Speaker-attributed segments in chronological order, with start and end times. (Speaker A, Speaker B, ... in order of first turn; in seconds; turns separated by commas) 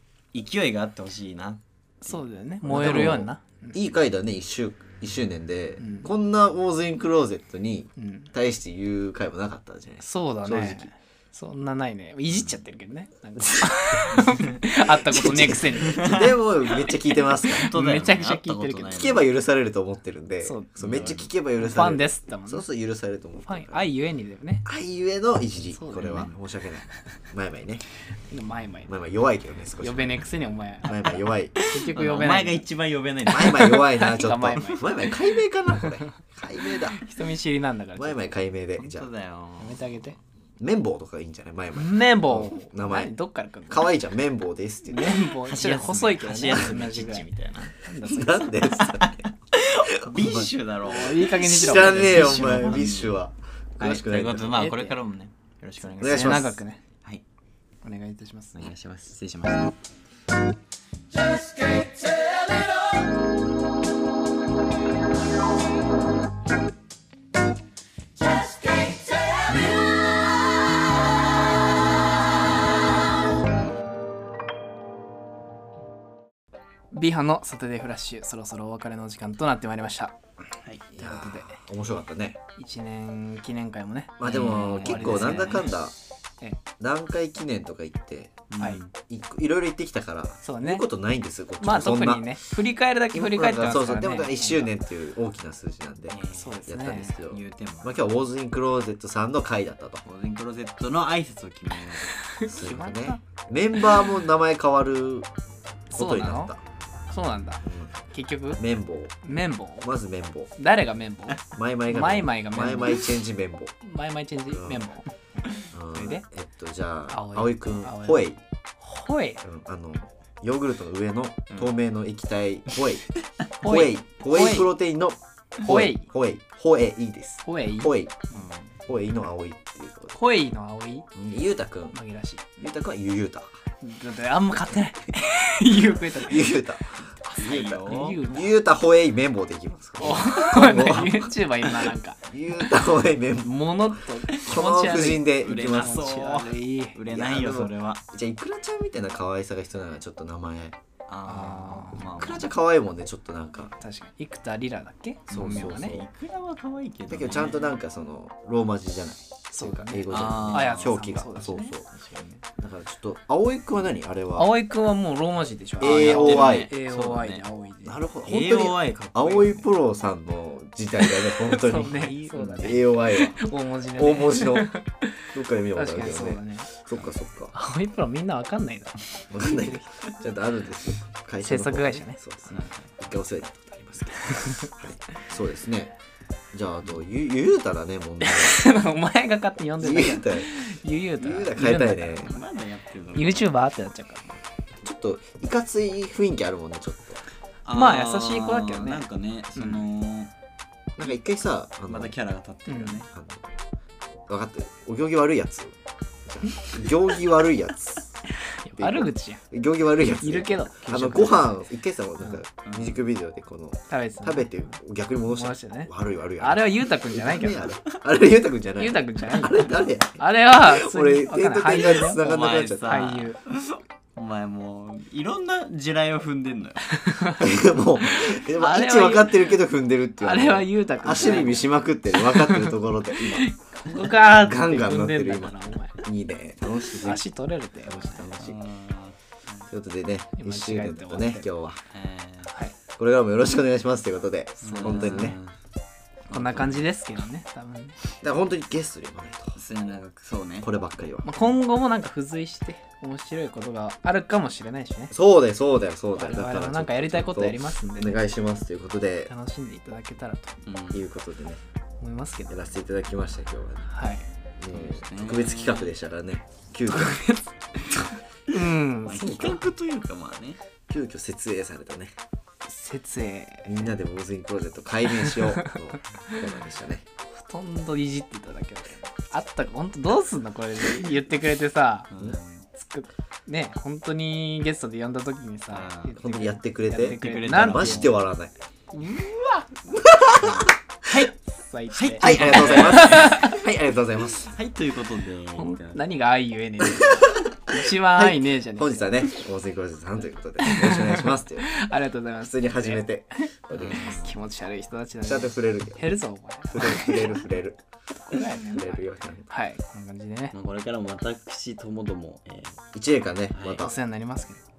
Speaker A: 0.3-2.2, Speaker B: 2.0-3.8, Speaker C: 2.6-10.9, Speaker B: 5.8-6.1, Speaker B: 8.0-8.3, Speaker B: 10.0-16.2, Speaker C: 13.4-14.0, Speaker A: 14.2-14.6, Speaker C: 14.9-17.7, Speaker A: 15.8-16.3, Speaker A: 17.5-19.3, Speaker B: 17.6-18.9, Speaker C: 18.9-23.9, Speaker B: 20.4-22.6, Speaker A: 20.8-21.2, Speaker B: 23.5-24.6, Speaker C: 24.6-27.8, Speaker B: 25.7-26.3, Speaker A: 26.0-26.3, Speaker B: 28.3-28.9, Speaker C: 28.9-30.2, Speaker B: 29.8-32.6, Speaker C: 30.8-31.6, Speaker A: 31.8-34.1, Speaker C: 33.3-37.0, Speaker B: 34.0-34.8, Speaker B: 37.0-38.4, Speaker C: 38.0-39.1, Speaker A: 38.8-40.0, Speaker B: 39.6-40.2, Speaker C: 40.6-43.1, Speaker B: 41.7-43.9, Speaker C: 43.7-45.1, Speaker B: 44.9-48.5, Speaker A: 45.1-47.7, Speaker C: 48.0-49.3, Speaker A: 48.7-53.2, Speaker C: 49.8-50.5, Speaker B: 50.8-52.9, Speaker C: 51.3-54.6, Speaker A: 53.8-56.4, Speaker B: 54.5-55.0, Speaker C: 56.0-56.6, Speaker B: 56.0-56.8, Speaker B: 57.8-58.7, Speaker A: 58.5-59.7, Speaker B: 76.9-80.2, Speaker B: 80.9-81.6, Speaker C: 80.9-82.4, Speaker B: 82.6-85.7, Speaker C: 84.2-85.9, Speaker A: 84.2-85.8, Speaker C: 86.8-88.5, Speaker A: 88.5-88.9, Speaker C: 89.0-92.4, Speaker B: 90.4-90.8, Speaker B: 91.6-94.7, Speaker C: 93.1-100.0, Speaker A: 96.1-96.7, Speaker B: 96.3-97.2, Speaker A: 97.2-97.9, Speaker A: 100.0-102.1, Speaker B: 102.2-103.2, Speaker C: 102.4-105.3, Speaker C: 105.9-106.6, Speaker B: 105.9-106.5, Speaker B: 107.1-108.6, Speaker C: 107.6-107.9, Speaker C: 108.6-109.1, Speaker B: 109.2-109.9, Speaker C: 109.8-110.5, Speaker B: 110.6-113.0, Speaker C: 111.5-113.7, Speaker B: 113.8-115.1, Speaker C: 114.5-114.9, Speaker C: 115.7-118.4, Speaker B: 115.9-116.2, Speaker B: 117.1-118.3, Speaker B: 118.8-119.4, Speaker C: 119.4-123.0, Speaker B: 123.6-124.7, Speaker C: 123.6-128.2, Speaker B: 125.6-126.1, Speaker B: 127.5-127.9, Speaker A: 128.3-128.7, Speaker C: 128.8-130.1, Speaker B: 130.1-131.1, Speaker C: 131.1-132.0, Speaker B: 131.9-132.6, Speaker C: 132.6-133.5, Speaker B: 133.8-136.5, Speaker C: 136.1-137.1, Speaker B: 137.2-138.5, Speaker A: 137.3-138.2, Speaker C: 138.2-141.3, Speaker B: 140.0-142.2, Speaker C: 142.2-146.0, Speaker B: 143.4-147.0, Speaker A: 145.4-148.0, Speaker C: 147.1-150.8, Speaker A: 151.1-152.5, Speaker B: 151.2-152.0, Speaker C: 152.1-153.7, Speaker B: 153.8-156.0, Speaker C: 155.3-156.1, Speaker A: 155.3-157.8, Speaker C: 157.1-161.8, Speaker B: 159.5-161.7, Speaker A: 160.1-162.4, Speaker C: 162.6-164.5, Speaker B: 164.4-168.0, Speaker C: 165.8-166.7, Speaker A: 165.8-167.4, Speaker C: 167.8-174.7, Speaker A: 168.2-169.7, Speaker B: 171.2-176.8, Speaker A: 171.8-172.9, Speaker C: 175.3-177.6, Speaker B: 177.5-179.8, Speaker C: 179.3-185.9, Speaker B: 181.4-182.2, Speaker A: 182.5-182.9, Speaker B: 184.3-184.7, Speaker C: 186.5-188.6, Speaker B: 188.2-192.3, Speaker C: 189.8-190.6, Speaker C: 191.2-192.4, Speaker A: 192.2-193.5, Speaker B: 193.1-194.4, Speaker C: 194.8-197.2, Speaker A: 197.7-200.3, Speaker B: 197.7-199.0, Speaker B: 199.6-199.8, Speaker C: 200.9-202.1, Speaker A: 201.9-203.1, Speaker B: 202.7-203.0, Speaker C: 203.1-203.5, Speaker C: 204.3-208.2, Speaker B: 208.3-209.4, Speaker C: 208.7-223.0, Speaker B: 210.2-211.5, Speaker A: 212.6-213.0, Speaker B: 213.9-214.5, Speaker B: 215.3-217.8, Speaker B: 218.8-223.4, Speaker A: 222.2-226.9, Speaker B: 226.9-227.6, Speaker C: 227.4-233.5, Speaker B: 228.1-229.5, Speaker B: 230.2-235.9, Speaker C: 234.0-237.2, Speaker B: 236.9-238.2, Speaker C: 237.8-238.6, Speaker A: 238.3-239.7, Speaker C: 239.7-241.8, Speaker B: 240.3-241.4, Speaker A: 241.9-242.5, Speaker B: 242.5-242.8, Speaker C: 243.0-245.4, Speaker B: 244.6-245.3, Speaker A: 244.6-245.5, Speaker B: 246.3-247.9, Speaker A: 246.3-246.8, Speaker C: 248.2-249.6, Speaker A: 249.6-250.7, Speaker C: 250.6-251.3, Speaker B: 251.2-255.1, Speaker C: 255.1-259.3, Speaker B: 256.1-258.2, Speaker B: 259.3-260.5, Speaker A: 260.6-261.0, Speaker C: 260.9-261.6, Speaker B: 262.0-262.6, Speaker C: 262.5-263.9, Speaker B: 263.9-264.2, Speaker C: 264.6-267.2, Speaker A: 264.7-265.9, Speaker B: 266.9-269.5, Speaker A: 269.0-270.6, Speaker C: 269.1-269.7, Speaker C: 270.9-272.1, Speaker B: 272.6-273.9, Speaker C: 273.6-277.0, Speaker B: 275.2-275.8, Speaker B: 277.3-282.1, Speaker A: 282.1-282.7, Speaker B: 282.7-288.1, Speaker A: 285.7-286.2, Speaker C: 286.1-288.5, Speaker A: 287.1-288.2, Speaker A: 288.9-289.8, Speaker C: 289.9-291.1, Speaker A: 290.3-291.4, Speaker B: 291.7-293.6, Speaker A: 291.9-293.6, Speaker C: 292.2-294.5, Speaker A: 294.4-296.0, Speaker B: 295.6-299.1, Speaker C: 297.0-301.7, Speaker B: 300.6-307.4, Speaker C: 302.4-304.2, Speaker A: 303.7-304.3, Speaker C: 305.2-306.0, Speaker C: 306.7-307.8, Speaker B: 308.3-310.5, Speaker C: 308.6-309.5, Speaker A: 310.5-312.8, Speaker C: 312.9-314.0, Speaker A: 313.5-313.9, Speaker B: 313.8-314.6